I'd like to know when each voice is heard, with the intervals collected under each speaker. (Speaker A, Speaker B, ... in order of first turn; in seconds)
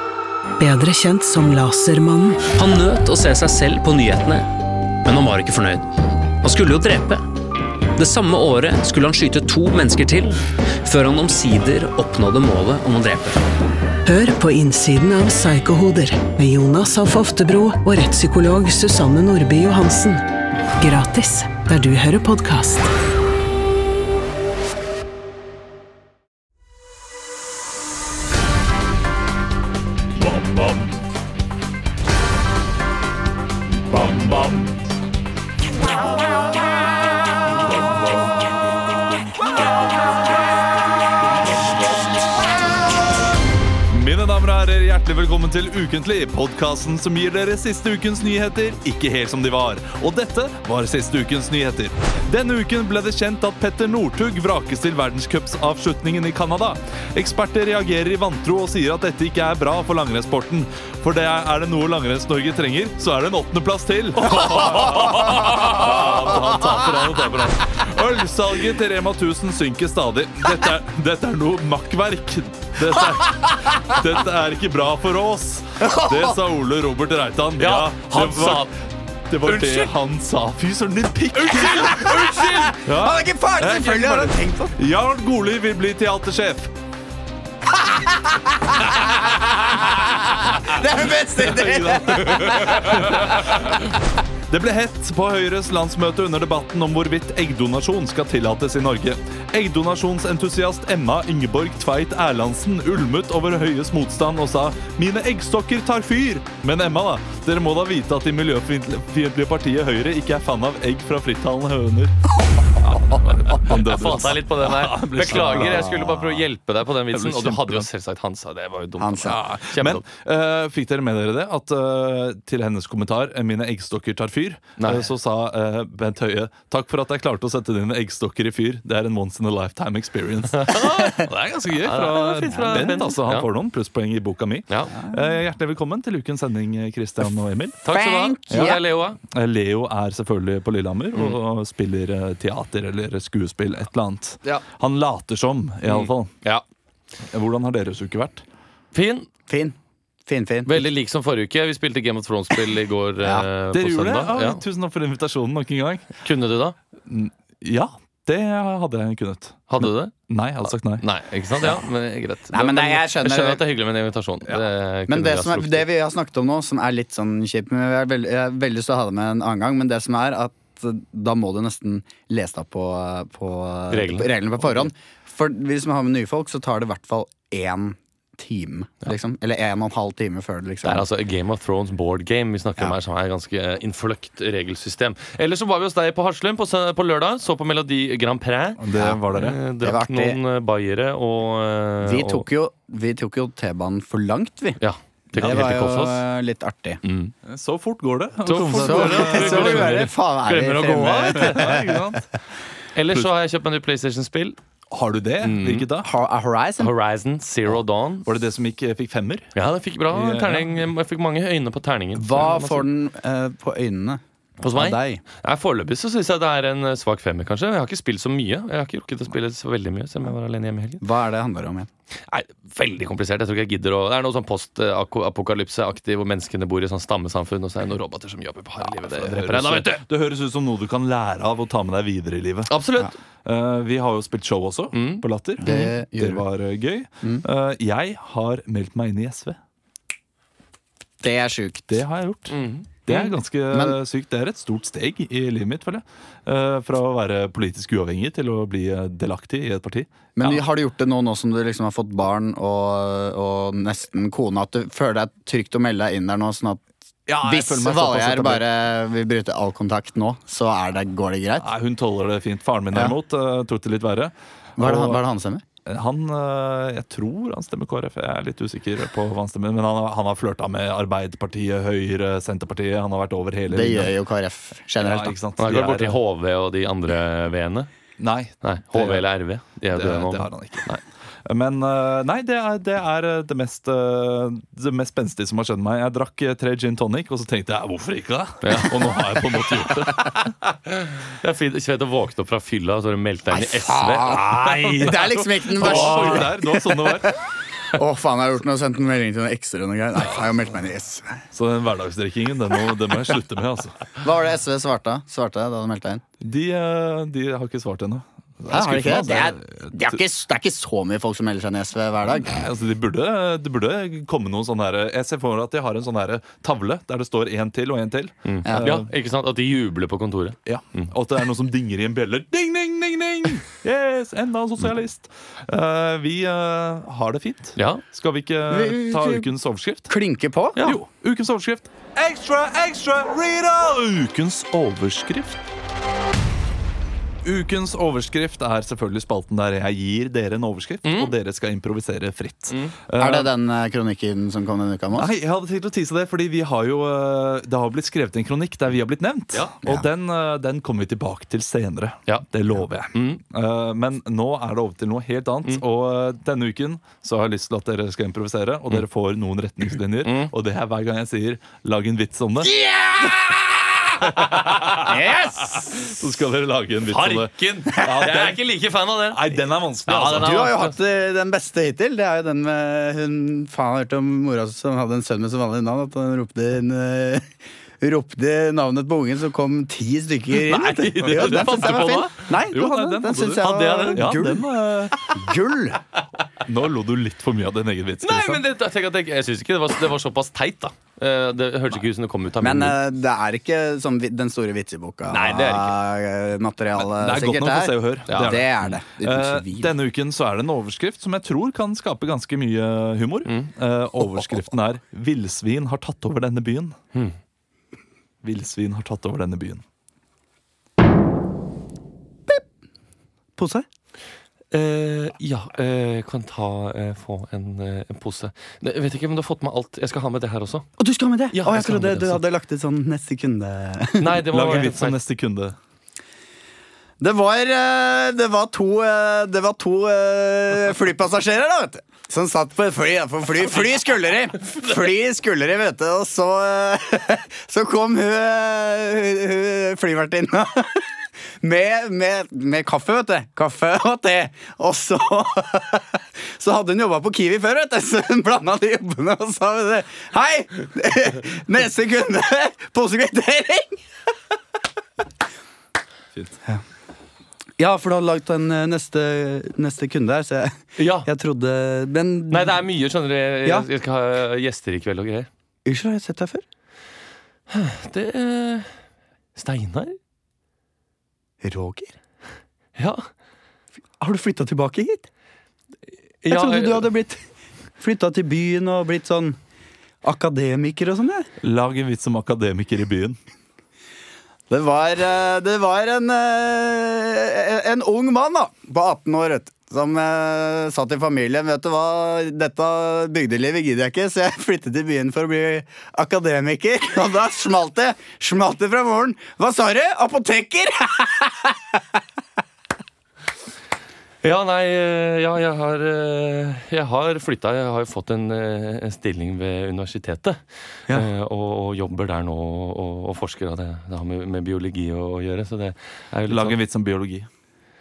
Speaker A: 0.6-2.5, 14.1-20.2, 20.8-22.9
Speaker B: 2.5-7.3, 8.0-13.4
Speaker C: 30.2-30.9, 33.9-34.8, 37.8-38.3, 43.9-86.7, 91.4-93.9, 94.5-112.2, 112.8-116.4, 117.1-117.9, 119.2-137.8, 138.5-146.3, 147.3-148.4, 153.7-156.1, 157.1-161.0, 188.8-189.6, 195.4-195.8, 197.5-200.1, 201.3-202.3, 204.9-206.1, 208.3-209.5, 210.1-210.8, 228.9-232.7, 233.4-239.6, 241.9-242.5, 243.1-250.6, 257.3-258.6, 261.6-265.2, 265.9-274.1, 275.0-276.2, 278.2-280.9, 281.5-290.5, 294.9-297.4, 301.5-304.0, 306.4-310.2, 312.4-319.1, 320.7-330.1, 330.8-335.6, 337.4-343.5, 345.1-362.8, 364.2-365.1, 365.8-368.6, 369.3-370.7, 381.2-385.2, 386.6-388.6, 397.0-407.0, 408.4-409.8, 424.5-425.8, 481.6-483.4, 516.5-517.5
Speaker D: 64.4-65.9, 77.6-78.7, 79.4-79.9, 81.3-82.8, 92.5-93.0, 113.5-120.0, 124.8-125.1, 130.6-131.3, 131.8-133.5, 134.7-135.0, 137.8-139.2, 145.9-146.6, 148.9-149.3, 150.7-154.6, 156.2-156.8, 159.7-165.9, 173.9-174.3, 180.8-192.5, 194.8-196.2, 197.0-197.3, 198.4-201.8, 202.9-204.6, 205.4-205.9, 206.8-208.3, 209.6-212.9, 214.6-221.0, 222.3-230.0, 232.7-233.2, 234.9-235.2, 242.5-243.3, 275.6-277.9, 278.6-281.0, 288.6-296.4, 318.4-321.1, 327.8-328.0, 341.1-341.3, 342.7-342.9, 353.1-353.4, 360.2-360.5, 364.5-365.2, 367.1-369.4, 370.1-370.9, 380.6-384.3, 388.2-393.0, 395.3-396.0, 398.3-398.6, 414.7-420.9, 421.5-422.4, 424.2-425.2, 461.0-461.3, 462.5-465.5, 467.7-468.9, 469.6-470.2, 473.0-473.3, 476.4-477.1, 504.4-516.8
Speaker E: 65.1-66.2, 75.8-76.4, 82.5-84.7, 87.8-93.6, 115.3-116.1, 119.0-119.4, 132.5-133.0, 137.9-138.8, 149.5-150.8, 162.5-163.6, 165.1-181.1, 188.9-189.2, 189.8-190.4, 192.0-194.8, 195.3-197.0, 198.7-202.2, 206.0-206.9, 212.2-215.2, 221.0-221.9, 235.6-236.4, 241.2-242.0, 243.7-244.0, 250.4-256.8, 257.4-261.7, 264.8-265.6, 273.7-275.4, 293.5-297.4, 297.9-301.4, 304.2-306.2, 308.7-312.6, 318.6-319.0, 328.7-329.5, 330.1-330.9, 343.2-345.3, 362.7-363.5, 365.0-365.9, 370.2-377.5, 378.0-386.0, 392.6-399.9, 413.6-413.9, 421.0-424.4, 427.2-454.0, 457.8-462.8, 465.9-466.6, 471.6-472.1, 474.2-475.3, 476.5-477.4, 478.0-479.6, 480.2-481.5, 484.7-502.2